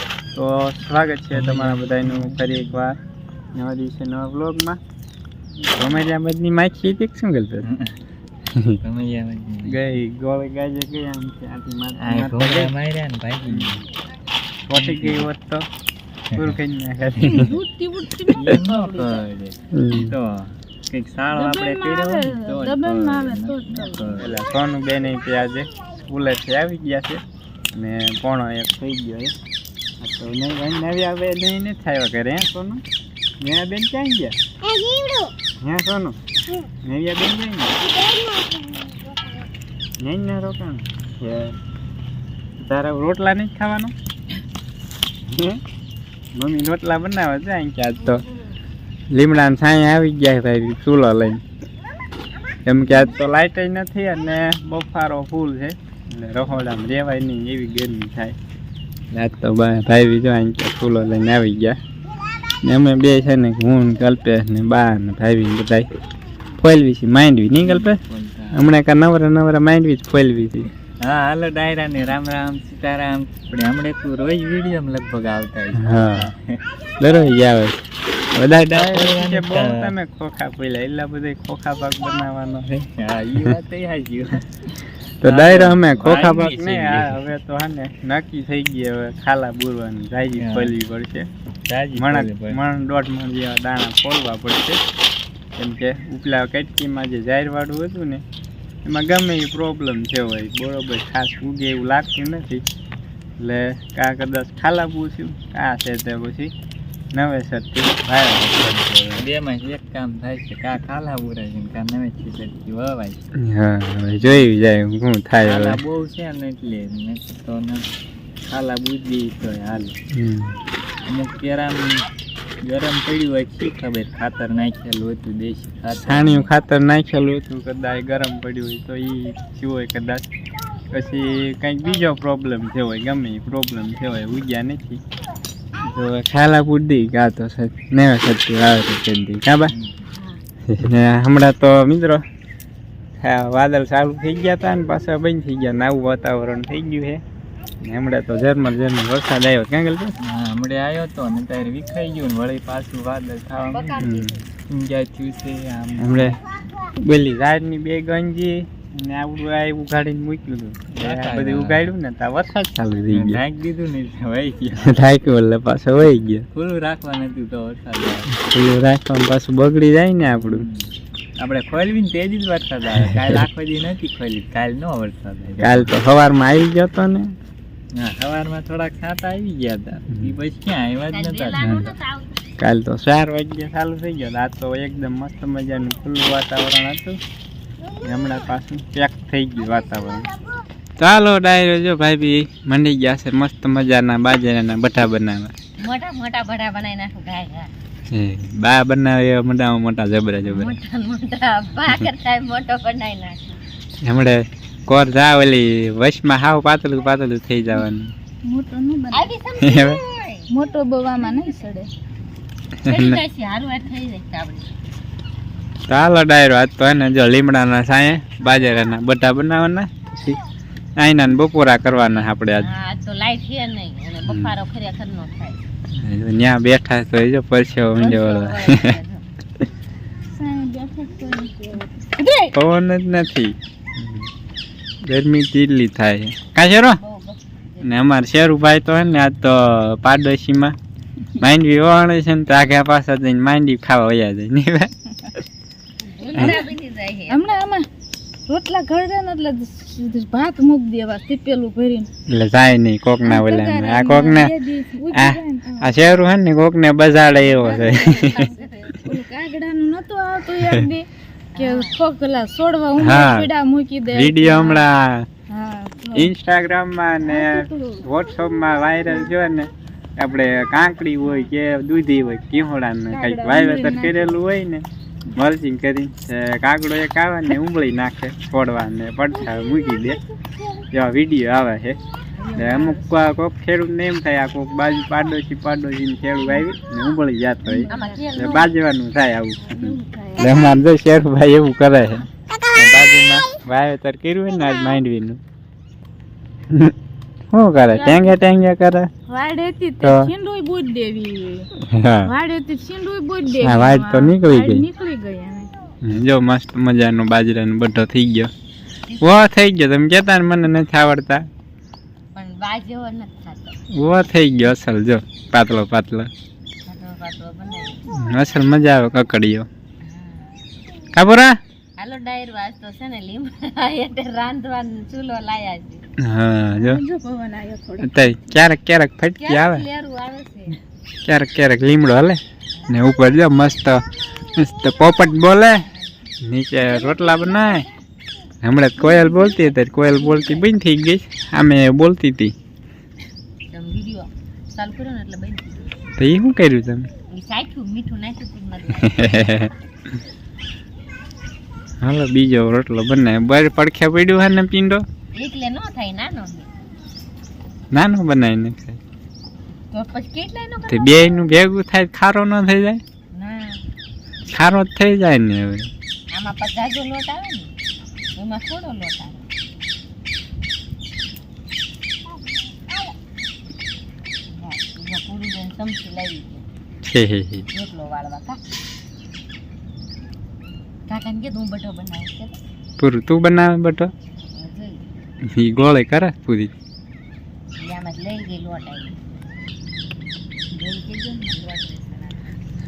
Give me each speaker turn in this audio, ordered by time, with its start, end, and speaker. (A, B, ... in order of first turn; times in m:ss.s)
0:00.3-0:03.0 A
0:01.3-0:02.6 B
0:03.5-0:04.8 A
0:05.7-0:07.7 A
0:07.6-0:07.9 B
0:08.5-0:08.8 A
0:08.8-0:09.8 B
0:09.6-0:12.7 A
0:12.0-0:13.8 B
0:13.5-0:13.8 A
0:14.7-0:15.7 A
0:14.7-0:15.3 B
0:16.4-0:17.6 A
0:17.3-0:19.2 C
0:18.3-0:24.3 B
0:19.7-0:20.1 A
0:21.3-0:24.1 C
0:24.2-0:27.2 A
0:27.7-0:29.4 A
0:30.0-0:32.8 A
0:33.4-0:34.4 A
0:35.6-0:36.2 A
0:36.8-0:37.9 A
0:40.0-0:41.6 A
0:42.6-0:43.9 A
0:45.3-0:45.6 A
0:46.3-0:48.2 A
0:49.1-0:51.4 A
0:52.6-0:58.4 A
0:59.1-1:01.8 A
1:02.6-1:05.9 A
1:06.6-1:08.0 A
1:07.6-1:08.7 B
1:08.5-1:10.7 A
1:11.0-1:16.6 B
1:15.7-1:16.3 A
1:17.0-1:17.8 A
1:18.3-1:22.7 A
1:18.7-1:20.0 B
1:22.7-1:27.2 B
1:25.2-1:31.3 A
1:30.4-1:30.8 B
1:31.7-1:32.6 B
1:31.9-1:34.8 A
1:35.6-1:38.2 A
1:38.8-1:42.6 A
1:43.4-1:46.5 A
1:47.1-1:49.2 A
1:48.8-1:53.2 B
1:53.4-1:55.8 A
1:55.4-1:57.9 B
1:58.4-2:00.0 B
2:00.1-2:00.6 A
2:01.0-2:02.1 B
2:02.6-2:06.5 B
2:06.0-2:10.3 A
2:10.9-2:15.0 A
2:15.8-2:19.7 A
2:20.7-2:22.2 A
2:23.2-2:27.2 A
2:27.8-2:30.2 A
2:30.2-2:34.1 B
2:33.7-2:34.4 D
2:34.0-2:34.4 A
2:34.7-2:36.4 B
2:36.0-2:36.4 A
2:37.0-2:43.4 A
2:40.9-2:41.9 B
2:43.1-2:45.1 B
2:44.8-2:46.5 A
2:46.5-2:48.3 B
2:48.3-2:50.7 A
2:50.2-2:56.0 B
2:53.1-2:53.4 A
2:55.6-2:57.3 A
2:57.9-3:01.9 B
3:01.1-3:02.4 D
3:01.6-3:01.9 A
3:02.6-3:07.2 A
3:08.0-3:10.3 A
3:11.0-3:15.5 A
3:15.8-3:17.7 D
3:18.1-3:20.8 A
3:20.5-3:23.6 D
3:24.0-3:28.1 A
3:28.4-3:29.3 C
3:29.1-3:30.5 D
3:29.6-3:30.0 A
3:30.5-3:31.9 C
3:31.1-3:31.8 D
3:32.9-3:33.2 A
3:32.9-3:34.7 D
3:35.9-3:40.4 A
3:41.0-3:42.7 A
3:41.9-3:45.6 D
3:44.3-3:44.5 A
3:46.0-3:49.0 A
3:47.8-3:49.2 D
3:50.3-3:52.5 C
3:52.5-3:54.3 A
3:55.0-3:57.0 A
3:57.0-3:58.0 D
3:57.8-4:00.8 A
4:01.4-4:04.9 A
4:06.0-4:07.6 D
4:07.3-4:07.8 C
4:08.5-4:12.1 C
4:12.3-4:14.5 A
4:13.2-4:15.9 C
4:15.1-4:18.4 A
4:17.4-4:19.1 D
4:19.0-4:21.1 C
4:21.5-4:22.0 D
4:21.6-4:24.8 C
4:23.0-4:23.5 A
4:24.1-4:25.3 A
4:25.5-4:26.3 C
4:26.1-4:40.2 A
4:27.3-4:28.0 C
4:33.1-4:34.3 C
4:39.4-4:40.2 C
4:40.9-4:42.0 A
4:42.4-4:43.1 C
4:42.6-4:55.4 A
4:47.7-4:48.2 C
4:47.9-4:48.7 D
4:49.6-4:50.8 C
4:57.5-4:59.1 A
4:59.3-5:01.7 C
5:00.0-5:00.3 A
5:01.8-5:02.3 A
5:02.3-5:05.7 C
5:03.5-5:04.9 A
5:06.0-5:08.5 A
5:09.1-5:09.5 D
5:09.2-5:11.4 A
5:12.3-5:13.8 D
5:14.0-5:16.3 A
5:16.8-5:18.0 D
5:18.1-5:19.7 A
5:20.0-5:20.6 D
5:21.1-5:21.6 A
5:22.0-5:26.0 D
5:26.2-5:27.0 A
5:26.8-5:28.1 C
5:28.0-5:29.8 A
5:29.4-5:30.8 D
5:31.2-5:35.8 A
5:36.4-5:37.9 A
5:37.0-5:37.4 D
5:38.6-5:42.5 A
5:39.0-5:40.7 D
5:43.7-5:45.9 D
5:46.2-5:47.1 A
5:47.3-5:49.3 D
5:49.0-5:49.7 A
5:52.0-5:55.0 A
5:55.3-5:56.7 D
5:57.9-5:59.0 A
5:59.9-6:01.3 D
6:00.9-6:03.0 A
6:03.3-6:03.8 D
6:04.5-6:05.9 A
6:06.3-6:07.7 D
6:08.4-6:09.5 D
6:14.5-6:16.7 D
6:17.0-6:17.7 A
6:17.7-6:18.6 D
6:21.1-6:22.6 D
6:23.0-6:24.1 A
6:24.5-6:25.0 D
6:25.5-6:26.7 A
6:27.8-6:29.2 D
6:30.7-6:32.6 D